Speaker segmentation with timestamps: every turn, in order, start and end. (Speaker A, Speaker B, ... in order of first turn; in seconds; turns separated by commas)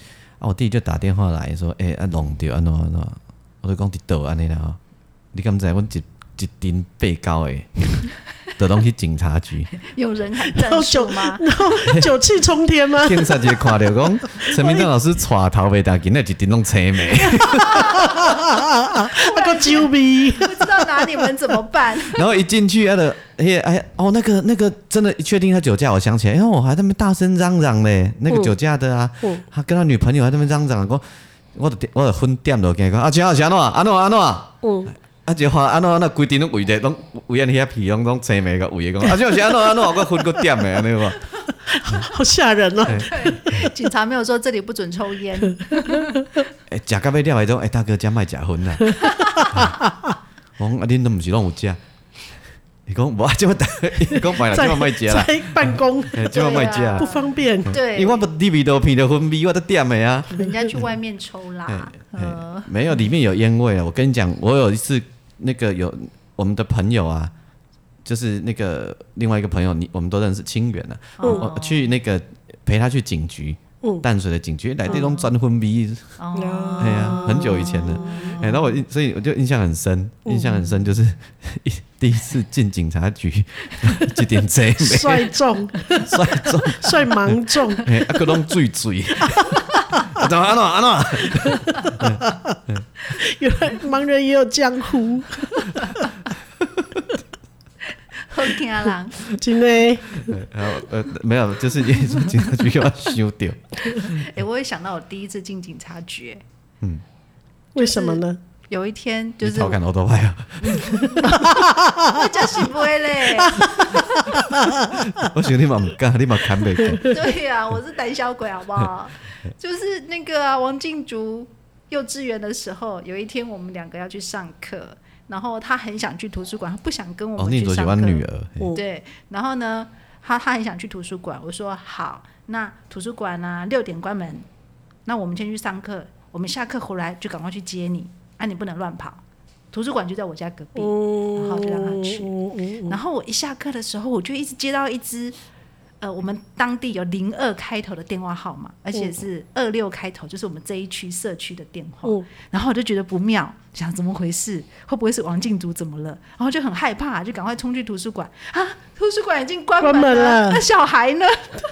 Speaker A: 0.4-4.8, Speaker A: 5.3-9.7, Speaker B: 9.8-11.6, Speaker C: 10.5-14.9, Speaker A: 11.9-12.1, Speaker A: 13.0-18.2, Speaker C: 17.2-21.3, Speaker B: 17.5-22.3, Speaker A: 22.1-34.6, Speaker C: 34.6-34.9, Speaker A: 35.2-41.3, Speaker C: 41.7-43.4, Speaker A: 42.9-43.7, Speaker B: 42.9-46.3, Speaker C: 45.4-46.2, Speaker A: 46.7-49.0, Speaker B: 48.9-49.8, Speaker C: 49.0-49.5, Speaker A: 49.5-49.8, Speaker A: 50.6-51.8, Speaker A: 52.9-57.1, Speaker C: 54.4-57.8, Speaker B: 56.3-58.2, Speaker A: 57.6-60.9, Speaker B: 60.3-63.0, Speaker A: 61.7-67.3, Speaker A: 68.0-76.2, Speaker B: 71.2-71.9, Speaker C: 71.2-71.5, Speaker B: 74.9-75.3, Speaker B: 76.2-78.8, Speaker C: 76.4-78.4, Speaker A: 76.8-85.3, Speaker C: 80.3-80.7, Speaker C: 84.8-87.9, Speaker A: 85.9-92.8, Speaker C: 91.5-92.6, Speaker C: 93.1-95.9, Speaker B: 95.8-96.0, Speaker B: 98.2-99.3, Speaker C: 99.3-100.3, Speaker A: 100.2-104.3, Speaker B: 103.9-106.4, Speaker C: 107.8-108.4, Speaker B: 107.8-109.8, Speaker A: 109.4-111.5, Speaker B: 110.6-114.4, Speaker C: 111.2-112.3, Speaker C: 113.4-115.3, Speaker A: 114.4-117.2, Speaker B: 116.9-134.5, Speaker A: 127.4-128.7, Speaker B: 135.1-142.3, Speaker C: 140.8-143.0, Speaker B: 142.8-145.4, Speaker B: 146.0-161.6, Speaker C: 159.8-160.6